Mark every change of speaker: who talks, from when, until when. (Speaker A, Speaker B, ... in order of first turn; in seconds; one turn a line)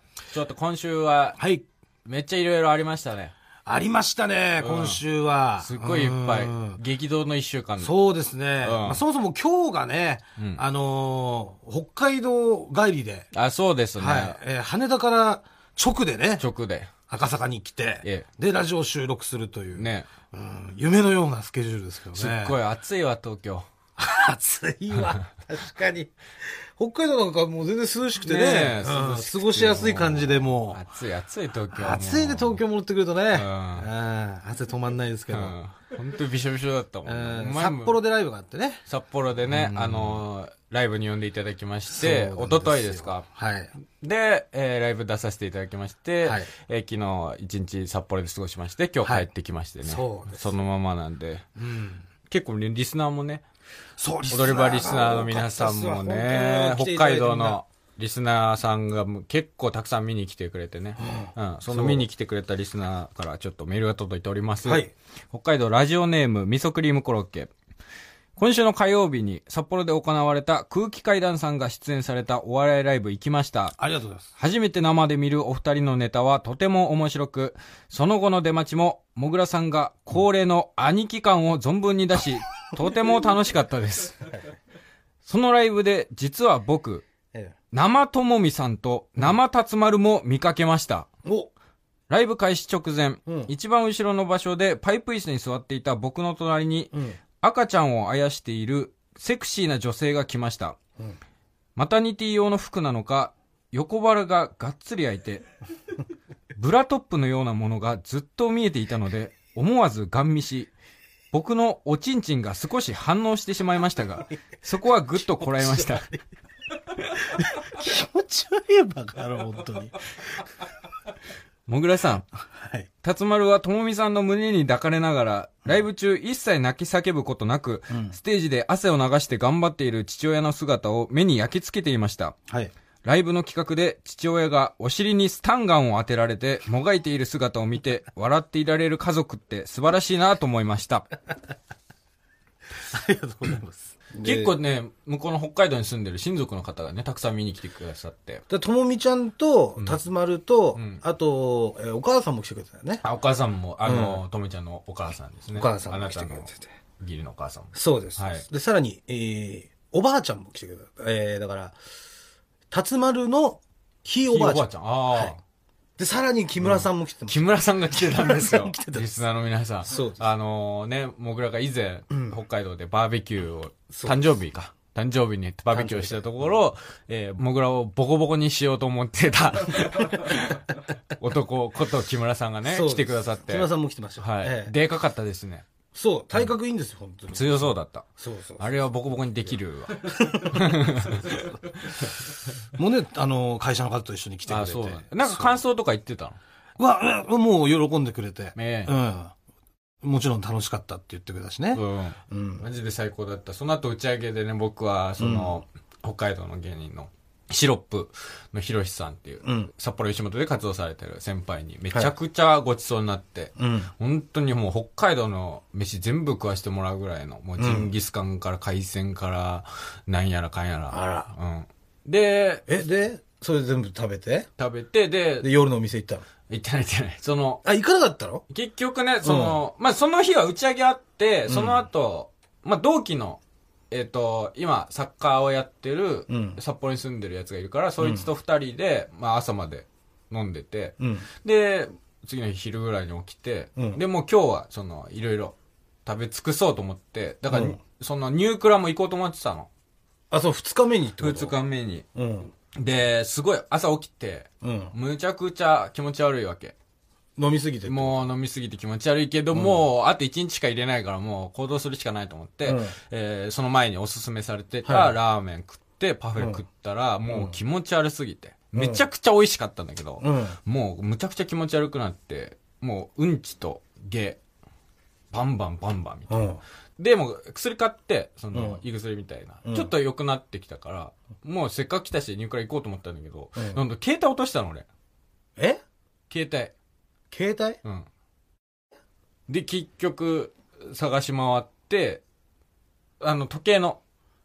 Speaker A: 0.3-1.4
Speaker B: 1.4-1.6
Speaker A: 2.0-3.3
Speaker B: 3.7-6.8
Speaker A: 4.6-5.0
Speaker A: 5.6-7.9
Speaker B: 7.8-13.3
Speaker A: 8.6-9.0
Speaker A: 13.3-14.4
Speaker B: 14.0-16.4
Speaker A: 16.4-16.9
Speaker B: 17.1-22.6
Speaker A: 19.8-20.1
Speaker A: 22.1-23.7
Speaker B: 24.0-30.8
Speaker A: 28.2-32.6
Speaker B: 31.7-35.5
Speaker A: 33.3-33.9
Speaker A: 35.3-38.0
Speaker B: 37.1-38.8
Speaker A: 38.9-43.3
Speaker B: 39.5-40.2
Speaker B: 41.9-43.7
Speaker A: 44.0-51.5
Speaker B: 46.2-46.5
Speaker B: 49.8-50.5
Speaker B: 51.6-52.1
Speaker A: 52.3-53.4
Speaker B: 54.0-57.6
Speaker A: 54.3-67.5
Speaker B: 61.0-62.0
Speaker B: 64.7-64.9
Speaker A: 68.4-73.8
Speaker B: 73.8-74.3
Speaker A: 74.4-84.3
Speaker A: 85.2-87.0
Speaker A: 87.7-91.1
Speaker B: 91.2-91.5
Speaker A: 92.1-100.8
Speaker B: 93.3-93.5
Speaker B: 96.9-97.2
Speaker A: 101.8-105.5
Speaker A: 106.6-110.7
Speaker A: 111.3-116.1
Speaker B: 115.4-116.2
Speaker B: 117.2-120.0
Speaker A: 121.7-122.3
Speaker B: 122.5-122.9
Speaker A: 123.0-132.4
Speaker B: 127.9-128.2
Speaker A: 133.0-141.1
Speaker B: 142.8-144.5
Speaker A: 144.2-148.4
Speaker B: 148.5-153.0
Speaker A: 150.8-151.0
Speaker A: 153.0-158.4
Speaker B: 153.8-154.2
Speaker B: 155.6-156.7
Speaker B: 157.7-161.8
Speaker B: 162.7-165.3
Speaker A: 164.3-165.4
Speaker B: 166.0-169.1
Speaker A: 166.6-185.7
Speaker B: 169.9-170.3
Speaker B: 173.9-174.2
Speaker B: 175.7-176.6
Speaker B: 182.7-184.8
Speaker B: 185.9-188.7
Speaker A: 187.3-188.1
Speaker A: 188.6-191.4
Speaker B: 189.5-192.1
Speaker B: 192.8-195.6
Speaker A: 194.5-196.4
Speaker B: 196.8-199.3
Speaker A: 198.6-198.9
Speaker B: 200.0-202.7
Speaker A: 201.7-222.7
Speaker B: 205.2-205.6
Speaker B: 209.4-209.7
Speaker B: 213.6-213.9
Speaker B: 217.6-217.9
Speaker B: 220.9-221.3
Speaker B: 222.7-224.5
Speaker A: 224.6-225.5
Speaker B: 225.4-226.2
Speaker A: 226.5-227.7
Speaker B: 227.7-228.4
Speaker A: 228.5-233.4
Speaker B: 229.2-229.6
Speaker B: 231.5-231.9
Speaker A: 233.9-249.7
Speaker B: 236.3-236.6
Speaker B: 238.0-238.3
Speaker B: 241.0-241.3
Speaker B: 247.5-247.8
Speaker B: 250.3-251.6
Speaker A: 251.2-252.1
Speaker B: 252.2-252.5
Speaker A: 252.7-256.8
Speaker B: 254.6-254.9
Speaker B: 257.4-258.2
Speaker A: 257.9-274.4
Speaker B: 259.5-259.8
Speaker B: 262.6-262.9
Speaker B: 264.9-265.2
Speaker B: 267.3-267.6
Speaker B: 268.8-269.1
Speaker B: 270.2-270.6
Speaker A: 275.3-276.5
Speaker B: 276.3-276.6
Speaker A: 277.0-284.9
Speaker B: 278.5-278.8
Speaker B: 279.6-279.9
Speaker B: 283.6-283.8
Speaker A: 286.3-286.7
Speaker B: 287.3-287.8
Speaker A: 289.5-292.2
Speaker A: 293.2-294.0